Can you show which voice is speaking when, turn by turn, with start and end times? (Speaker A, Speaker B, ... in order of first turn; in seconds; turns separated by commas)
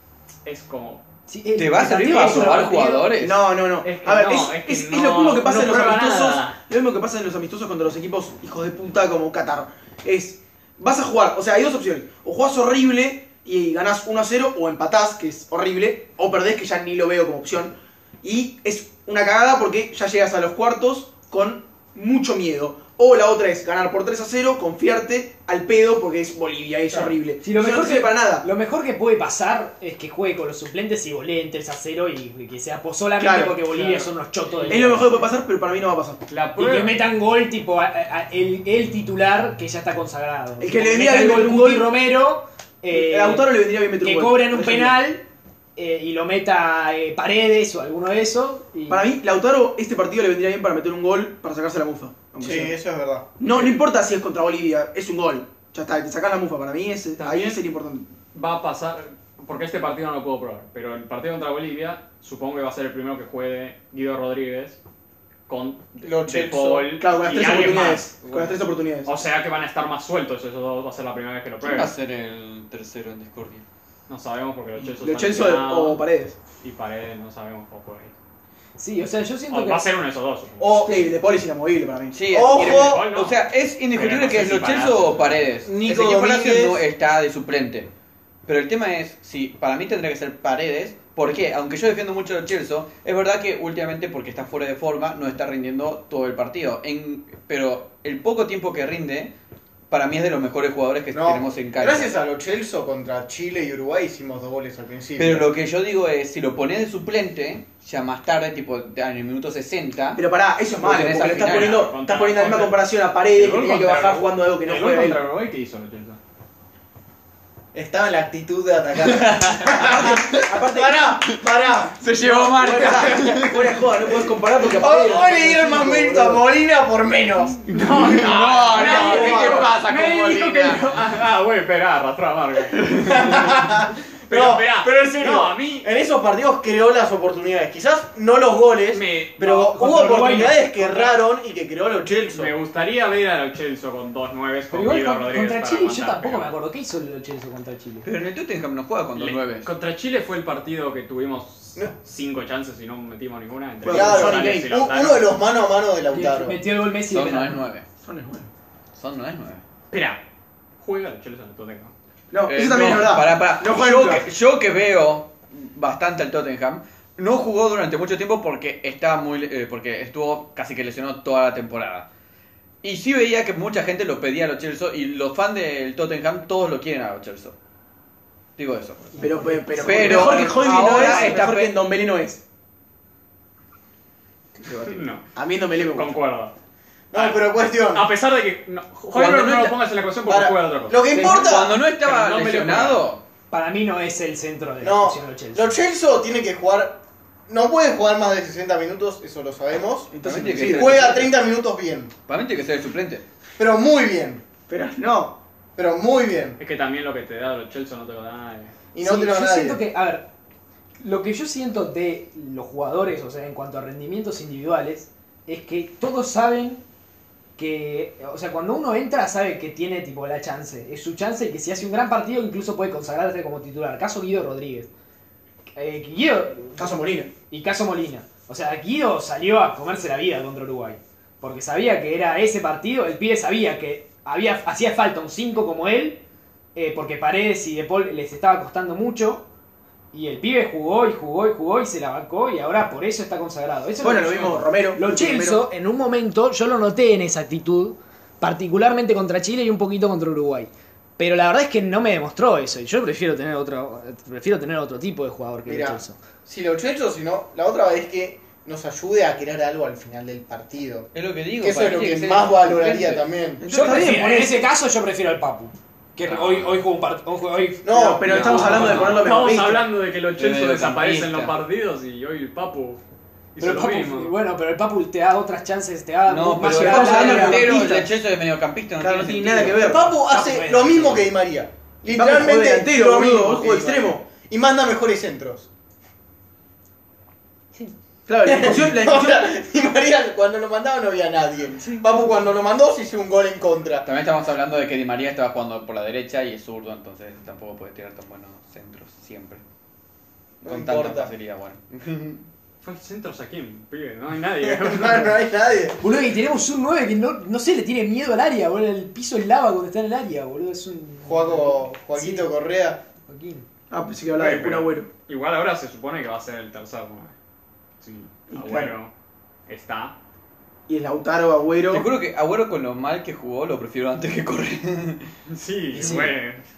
Speaker A: 0.5-1.0, Speaker B: 1.3-3.1, Speaker C: 1.6-3.5, Speaker A: 2.0-2.8, Speaker D: 3.2-28.5, Speaker A: 3.8-6.6, Speaker B: 26.9-35.1, Speaker D: 33.2-33.6, Speaker A: 33.7-35.2, Speaker D: 34.7-36.2, Speaker A: 36.3-37.0, Speaker B: 36.6-45.2, Speaker D: 40.6-41.9, Speaker D: 42.9-45.0, Speaker B: 45.8-49.0, Speaker D: 48.9-52.7, Speaker E: 52.4-53.3, Speaker D: 53.4-58.1, Speaker A: 57.2-57.6, Speaker A: 58.3-64.8, Speaker A: 65.5-68.2, Speaker E: 66.0-67.0, Speaker D: 67.0-69.1, Speaker C: 67.4-68.6, Speaker A: 69.0-71.9, Speaker C: 71.6-73.6, Speaker A: 74.1-76.0, Speaker D: 74.8-76.4, Speaker A: 76.6-78.1, Speaker B: 78.8-79.8, Speaker A: 79.5-81.0, Speaker D: 80.6-82.9, Speaker C: 82.1-87.9, Speaker E: 82.3-83.1, Speaker A: 82.5-83.4, Speaker A: 83.9-85.3, Speaker E: 85.7-86.8, Speaker C: 88.5-99.3, Speaker C: 99.9-102.1, Speaker E: 101.1-105.5, Speaker C: 105.2-110.2, Speaker D: 110.2-115.2, Speaker C: 110.8-111.9, Speaker A: 111.3-116.2, Speaker E: 117.7-122.0, Speaker C: 119.0-120.5, Speaker D: 119.7-121.1, Speaker C: 122.0-123.8, Speaker D: 122.2-126.4, Speaker E: 122.9-123.2, Speaker E: 124.7-129.7, Speaker C: 127.7-130.8, Speaker A: 127.7-133.4, Speaker D: 128.8-129.7, Speaker E: 133.0-142.5, Speaker A: 134.3-135.9, Speaker A: 138.9-141.2, Speaker B: 139.4-140.6, Speaker A: 142.3-146.5, Speaker B: 144.7-148.1, Speaker C: 148.0-149.7, Speaker A: 149.2-155.3, Speaker D: 153.8-154.7, Speaker E: 153.9-156.6, Speaker B: 156.1-157.6, Speaker C: 157.0-157.9, Speaker D: 158.0-158.5, Speaker C: 158.9-159.6, Speaker A: 159.9-160.2, Speaker A: 160.8-161.9, Speaker D: 162.3-164.3, Speaker C: 162.5-172.1, Speaker C: 172.8-177.6, Speaker C: 178.6-181.8, Speaker D: 179.2-182.4, Speaker A: 180.1-180.4, Speaker A: 184.7-186.5, Speaker C: 184.7-185.0, Speaker D: 185.3-186.2, Speaker E: 187.1-188.1, Speaker A: 187.1-193.1, Speaker C: 189.1-189.7, Speaker E: 190.3-191.8, Speaker D: 191.2-191.4, Speaker C: 191.2-193.2, Speaker B: 193.5-195.8, Speaker E: 194.8-202.1, Speaker D: 200.1-201.1, Speaker C: 200.2-201.3, Speaker C: 202.3-203.2, Speaker E: 203.6-204.4, Speaker D: 204.7-205.4, Speaker E: 205.8-206.6, Speaker A: 206.6-208.7, Speaker E: 208.9-209.8, Speaker B: 209.0-210.3, Speaker B: 211.0-216.8, Speaker B: 217.6-224.9, Speaker B: 225.8-236.2, Speaker D: 226.8-227.3, Speaker B: 236.8-239.5, Speaker B: 240.1-256.2, Speaker D: 244.0-245.7, Speaker E: 255.7-263.7, Speaker C: 261.1-263.3, Speaker D: 263.6-264.7, Speaker B: 263.7-269.2, Speaker C: 266.2-266.8, Speaker E: 267.8-268.5, Speaker D: 267.9-269.9, Speaker C: 268.3-269.4, Speaker A: 269.1-273.0, Speaker C: 270.4-271.6, Speaker A: 273.6-274.3, Speaker B: 273.6-278.0, Speaker C: 276.3-280.0, Speaker D: 276.6-278.1, Speaker D: 279.0-280.1, Speaker E: 279.7-285.7, Speaker B: 280.3-281.2, Speaker D: 282.1-284.2, Speaker D: 288.3-289.5, Speaker E: 288.4-294.1, Speaker C: 294.0-299.6, Speaker C: 300.6-302.5, Speaker E: 300.6-301.3, Speaker A: 302.8-305.4, Speaker E: 304.6-306.0, Speaker B: 306.0-312.5, Speaker E: 311.2-313.0, Speaker B: 313.3-313.6, Speaker D: 313.9-315.1, Speaker A: 314.4-317.3, Speaker A: 318.0-319.1, Speaker D: 318.5-318.9, Speaker A: 319.7-320.2, Speaker D: 320.9-322.1, Speaker C: 321.9-325.3, Speaker A: 325.5-326.6, Speaker B: 326.0-326.3